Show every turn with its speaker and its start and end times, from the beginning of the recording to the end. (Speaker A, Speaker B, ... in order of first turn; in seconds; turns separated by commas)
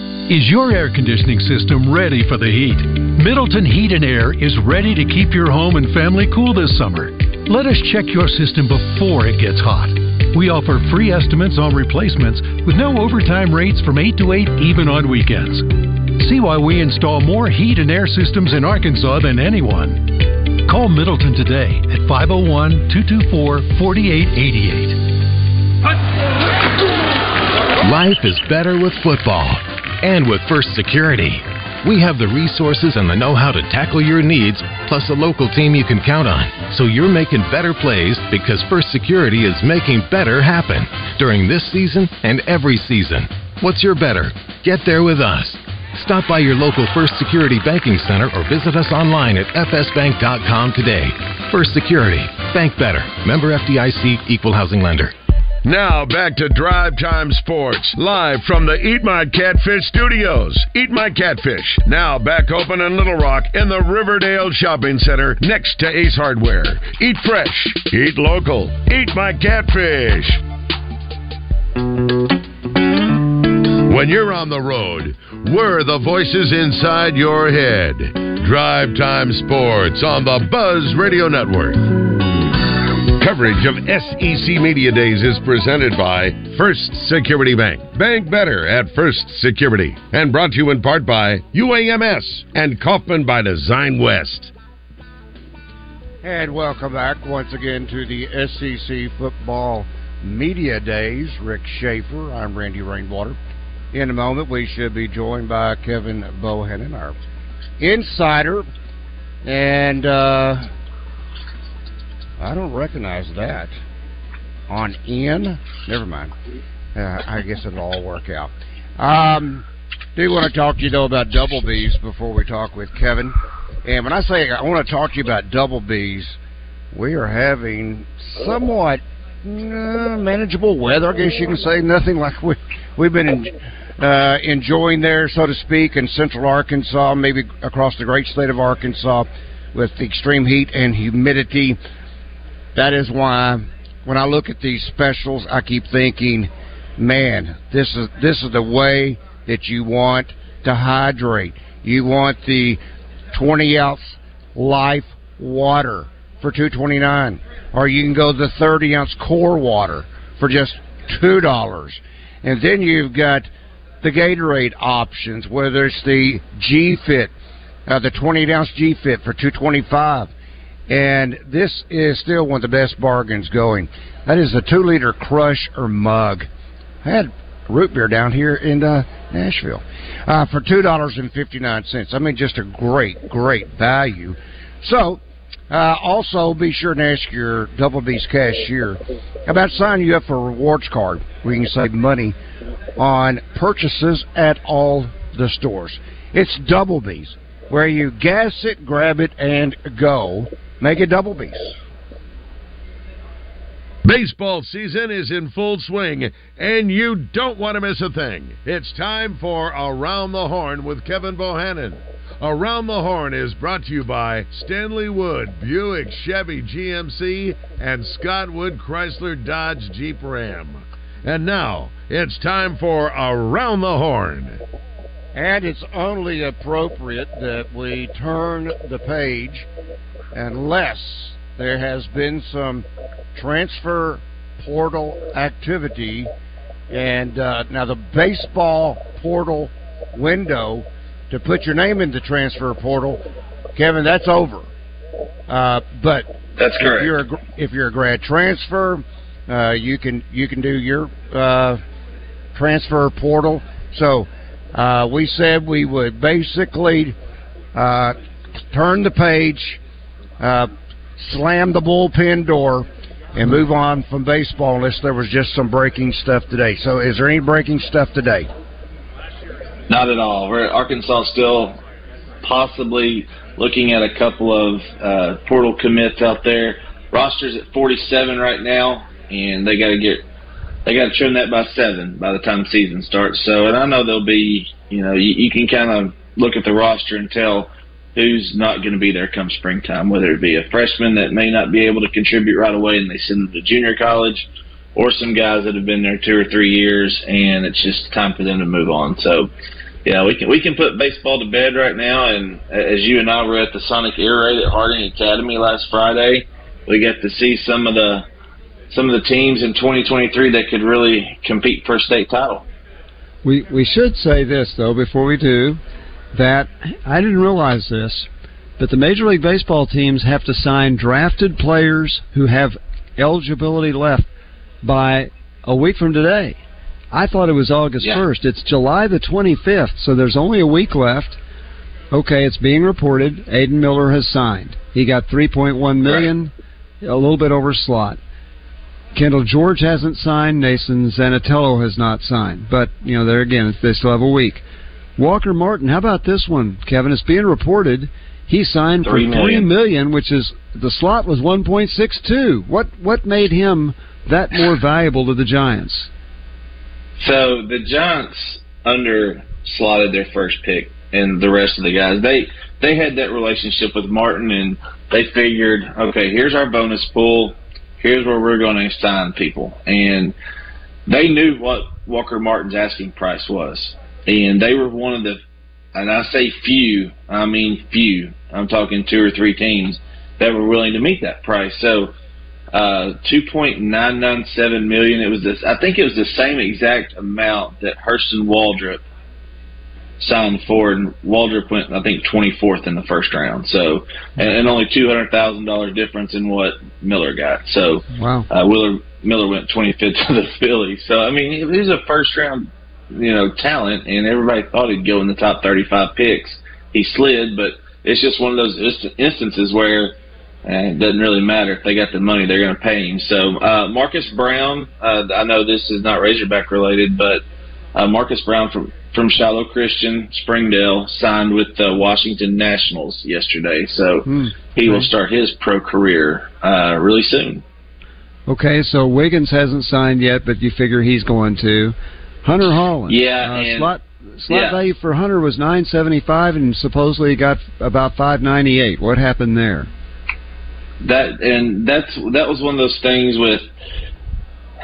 Speaker A: 0.3-25.1, Speaker B: 27.8-55.1, Speaker C: 55.6-70.4, Speaker C: 73.8-81.9, Speaker C: 83.2-94.5, Speaker D: 96.2-103.4, Speaker D: 103.9-107.2, Speaker D: 107.8-108.7, Speaker D: 109.4-110.7, Speaker D: 112.4-113.8, Speaker D: 114.7-116.3, Speaker D: 116.9-126.4, Speaker D: 126.9-141.8, Speaker D: 142.7-152.8, Speaker D: 153.3-163.5, Speaker D: 164.0-167.3, Speaker D: 167.9-170.3, Speaker D: 170.9-176.5, Speaker D: 177.0-192.3, Speaker D: 193.0-201.8, Speaker C: 204.0-224.6, Speaker D: 225.3-229.7, Speaker D: 230.3-236.3, Speaker D: 236.9-243.2, Speaker D: 243.7-244.7, Speaker D: 245.5-251.8, Speaker E: 246.6-247.1, Speaker D: 252.5-257.1, Speaker D: 257.7-258.1, Speaker D: 258.7-259.8, Speaker D: 260.4-268.5, Speaker E: 269.9-271.8, Speaker E: 272.4-280.2, Speaker E: 280.9-299.5, Speaker E: 300.0-308.2, Speaker E: 308.9-312.6, Speaker F: 313.4-315.8, Speaker F: 316.3-318.3, Speaker F: 318.8-324.3, Speaker F: 324.8-326.6, Speaker F: 327.1-331.4, Speaker F: 332.1-336.5, Speaker E: 336.0-336.3, Speaker F: 337.0-338.2, Speaker F: 339.1-344.6, Speaker F: 345.2-356.1, Speaker E: 349.0-349.7, Speaker E: 357.1-370.3, Speaker E: 371.1-375.4, Speaker E: 375.9-382.1, Speaker E: 382.7-389.0, Speaker E: 390.2-417.4, Speaker F: 398.1-398.5, Speaker E: 417.9-427.6, Speaker F: 424.2-425.1, Speaker F: 428.5-439.9, Speaker E: 433.1-433.9, Speaker E: 434.5-434.8, Speaker E: 441.0-443.7